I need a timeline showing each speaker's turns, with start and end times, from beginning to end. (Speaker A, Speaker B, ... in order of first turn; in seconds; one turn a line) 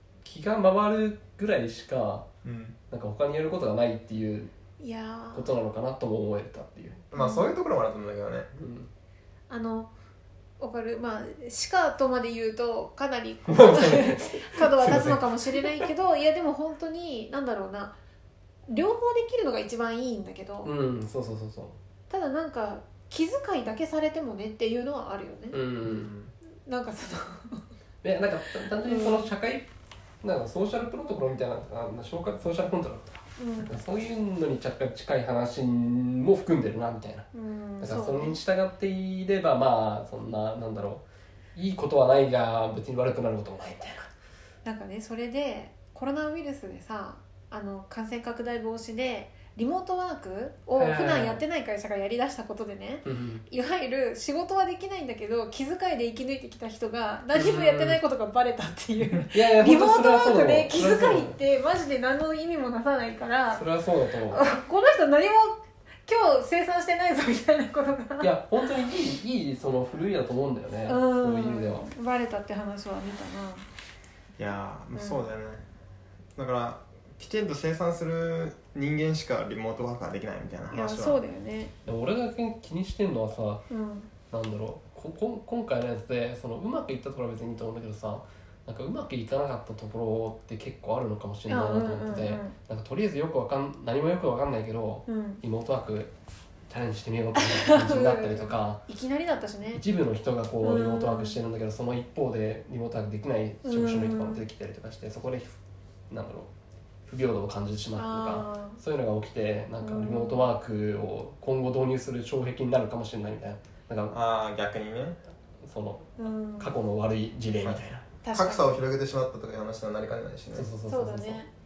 Speaker A: 0.2-2.2
Speaker B: 2.4-2.8
Speaker A: 2.9-4.5
Speaker C: 4.8-5.5
Speaker A: 5.3-7.0
Speaker B: 7.1-8.5
Speaker C: 7.1-7.5
Speaker A: 8.5-8.9
Speaker C: 9.5-9.9
Speaker C: 10.6-18.0
Speaker A: 13.5-15.9
Speaker C: 18.7-20.7
Speaker A: 20.6-21.8
Speaker C: 22.1-25.6
Speaker A: 25.5-26.3
Speaker C: 26.6-27.6
Speaker A: 28.0-29.7
Speaker C: 28.8-29.3
Speaker A: 30.2-37.3
Speaker C: 33.4-33.8
Speaker C: 37.3-38.4
Speaker A: 37.8-41.0
Speaker A: 41.5-44.1
Speaker C: 44.6-63.6
Speaker A: 50.8-51.4
Speaker A: 53.0-53.4
Speaker A: 57.3-58.0
Speaker A: 59.3-61.4
Speaker A: 63.5-64.4
Speaker C: 64.3-68.3
Speaker A: 68.2-71.9
Speaker C: 70.9-73.7
Speaker B: 74.4-75.6
Speaker C: 74.9-75.2
Speaker B: 76.3-81.2
Speaker C: 80.7-81.7
Speaker A: 81.8-83.6
Speaker C: 83.7-84.1
Speaker A: 84.3-96.1
Speaker C: 91.5-92.5
Speaker C: 95.1-95.4
Speaker A: 96.7-98.8
Speaker C: 97.4-99.8
Speaker A: 99.7-105.5
Speaker C: 100.6-101.4
Speaker C: 103.6-104.4
Speaker A: 106.1-106.5
Speaker A: 107.1-114.2
Speaker C: 108.0-108.8
Speaker C: 109.8-110.5
Speaker B: 114.1-115.2
Speaker A: 115.6-118.0
Speaker C: 116.2-116.7
Speaker C: 118.2-118.8
Speaker B: 118.3-120.7
Speaker A: 120.5-121.4
Speaker C: 120.9-121.5